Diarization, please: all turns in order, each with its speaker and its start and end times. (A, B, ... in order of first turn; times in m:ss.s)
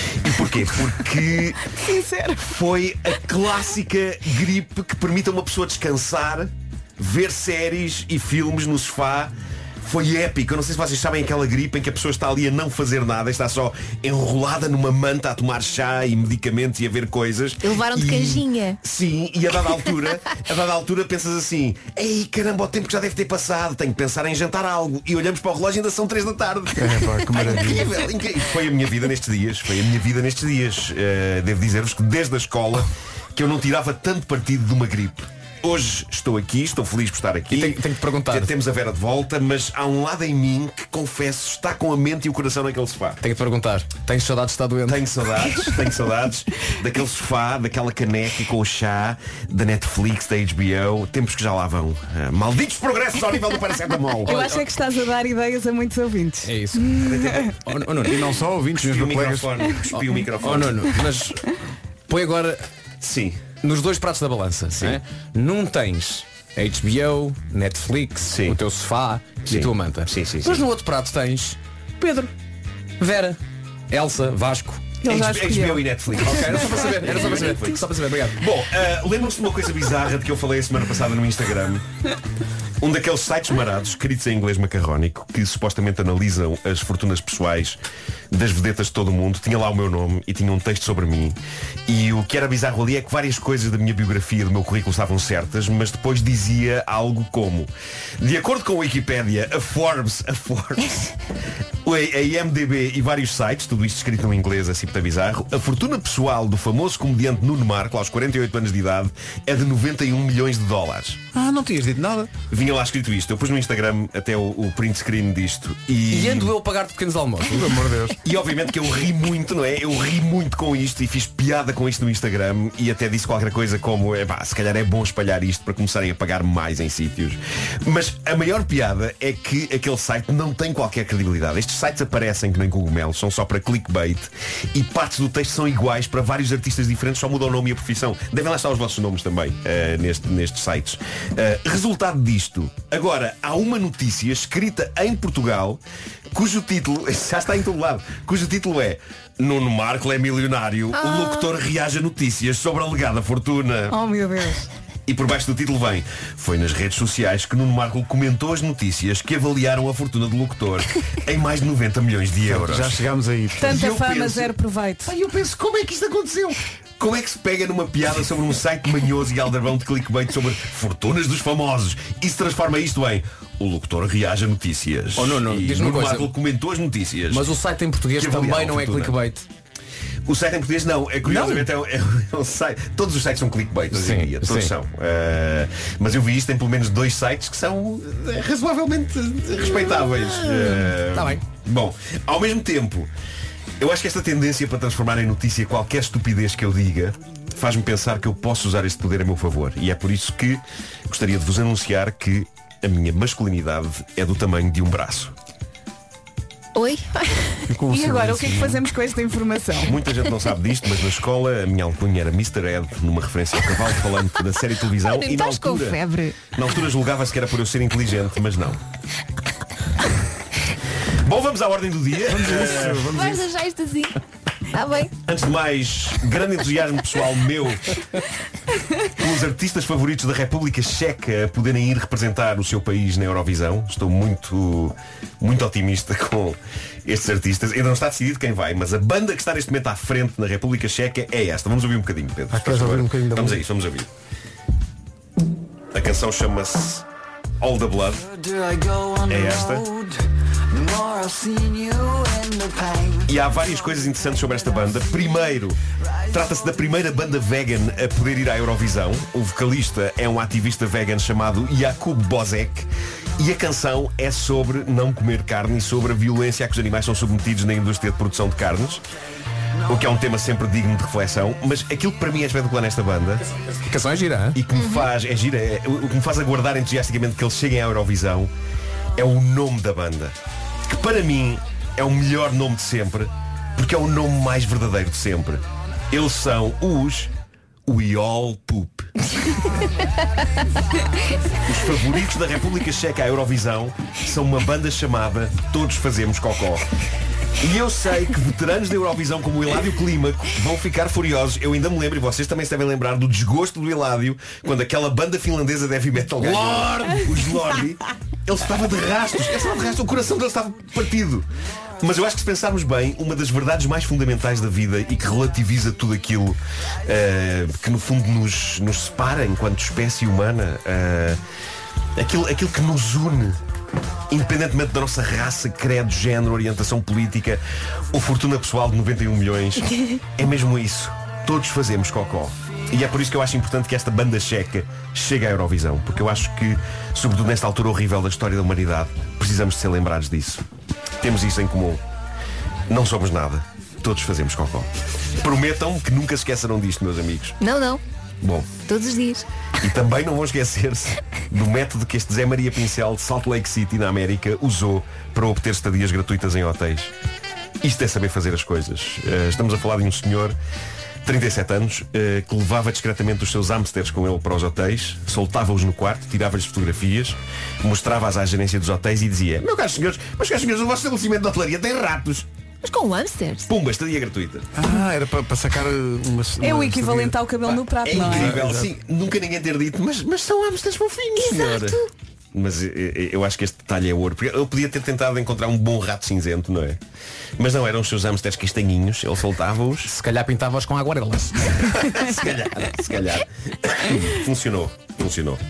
0:00.2-0:01.8 A
0:01.6-0:02.6 B
0:02.4-0:43.2 A
0:17.6-0:18.8 C
0:26.8-0:28.0 D
0:37.5-0:38.5 E
0:43.2-0:45.5 E
0:44.9-0:54.3 A
0:54.2-0:57.5 B
0:54.3-0:54.6 E
0:56.5-0:58.3 E
0:57.0-0:57.5 A
0:58.1-0:59.6 D
0:58.8-1:01.0 A
0:59.9-1:01.5 E
1:02.1-1:02.6 E
1:03.0-1:03.4 A
1:03.6-1:12.2 E
1:08.3-1:08.6 A
1:09.4-1:10.6 A
1:12.0-1:12.3 B
1:13.0-1:13.4 E
1:13.9-1:15.0 E
1:15.0-1:17.0 B
1:15.0-1:21.8 A
1:16.2-1:18.4 E
1:22.8-1:27.8 A
1:28.3-1:41.2 A
1:41.8-1:51.2 A
1:51.3-1:52.3 D
1:52.5-1:56.5 A
1:56.1-1:57.8 E
1:57.5-1:58.2 D
1:58.2-2:25.8 A
2:26.3-2:34.0 A
2:31.0-2:31.5 C
2:33.9-2:34.7 B
2:35.1-2:43.0 A
2:42.4-2:43.9 D
2:43.6-2:45.1 B
2:43.7-2:44.5 A
2:45.0-2:57.4 A
2:55.2-2:56.3 E
2:57.3-2:59.5 E
2:58.1-2:59.2 A
3:00.3-3:13.1 A
3:01.2-3:01.7 E
3:03.9-3:04.7 E
3:11.1-3:11.4 E
3:13.8-3:25.3 A
3:26.8-3:27.6 C
3:27.7-3:28.8 D
3:27.9-3:29.9 B
3:29.8-3:38.8 A
3:35.0-3:36.4 C
3:41.2-3:43.1 A
3:42.2-3:43.5 D
3:43.1-3:44.2 C
3:44.7-3:45.1 C
3:45.3-3:47.9 A
3:49.1-4:04.1 A
4:02.5-4:03.6 D
4:05.9-4:07.0 A
4:07.6-4:08.4 A
4:09.1-4:09.9 A
4:13.2-4:15.8 A
4:16.3-4:29.0 A
4:29.9-4:33.4 A
4:33.6-4:34.6 E
4:34.6-4:38.5 A
4:34.7-4:35.1 C
4:39.2-4:40.3 A
4:40.9-4:47.3 A
4:47.9-4:49.1 A
4:51.7-4:56.8 A
4:57.6-5:11.5 A
5:06.4-5:06.9 E
5:12.0-5:21.4 A
5:22.2-5:23.6 A
5:24.3-5:27.6 A
5:28.1-5:40.6 A
5:41.2-5:42.0 A
5:42.9-5:47.6 A
5:47.6-5:48.0 C
5:48.4-5:48.8 A
5:48.8-5:49.5 C
5:49.8-5:57.1 A
5:57.8-6:00.6 A
6:01.2-6:12.5 A
6:12.8-6:13.7 C
6:13.7-6:14.7 A
6:14.8-6:17.4 D
6:16.6-6:18.6 B
6:18.0-6:27.0 A
6:18.1-6:18.9 D
6:21.6-6:22.0 C
6:27.6-6:30.1 A
6:30.0-6:31.9 E
6:31.8-6:35.6 A